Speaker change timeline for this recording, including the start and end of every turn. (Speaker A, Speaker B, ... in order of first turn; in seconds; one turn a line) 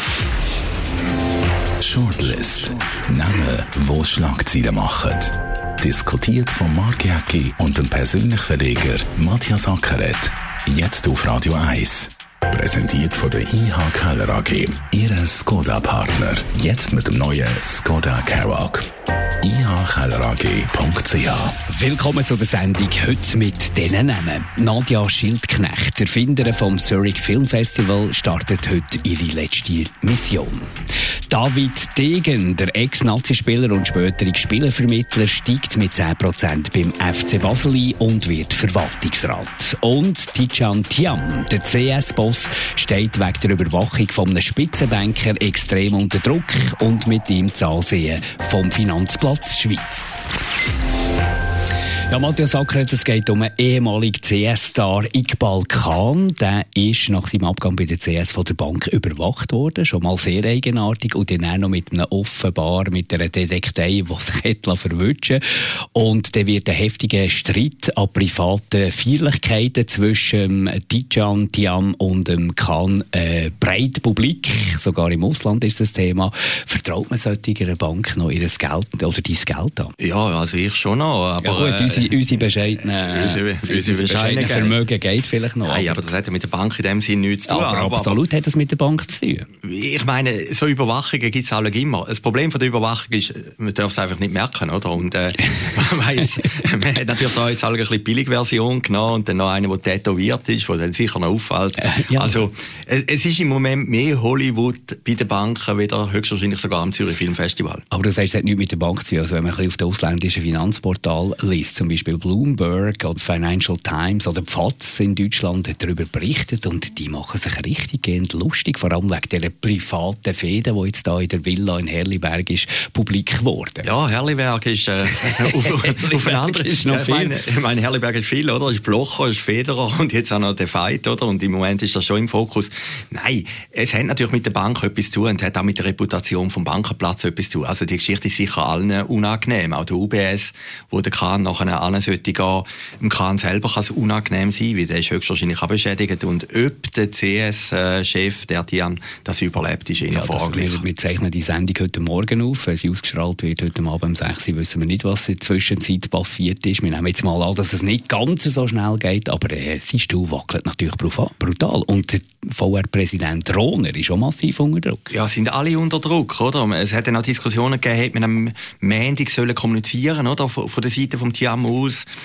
Speaker A: 1.8-18.9
Speaker A: 19.4-21.6
Speaker B: 21.7-30.7
Speaker B: 31.3-50.3
Speaker B: 52.1-65.4
Speaker B: 65.9-79.9
Speaker C: 80.0-82.3
Speaker B: 81.4-86.0
Speaker C: 82.9-84.8
Speaker C: 85.6-88.2
Speaker B: 87.5-89.5
Speaker C: 89.6-107.8
Speaker B: 101.8-102.4
Speaker B: 107.9-123.9
Speaker C: 123.8-150.8
Speaker B: 125.0-127.3
Speaker B: 150.1-165.1
Speaker C: 165.1-172.1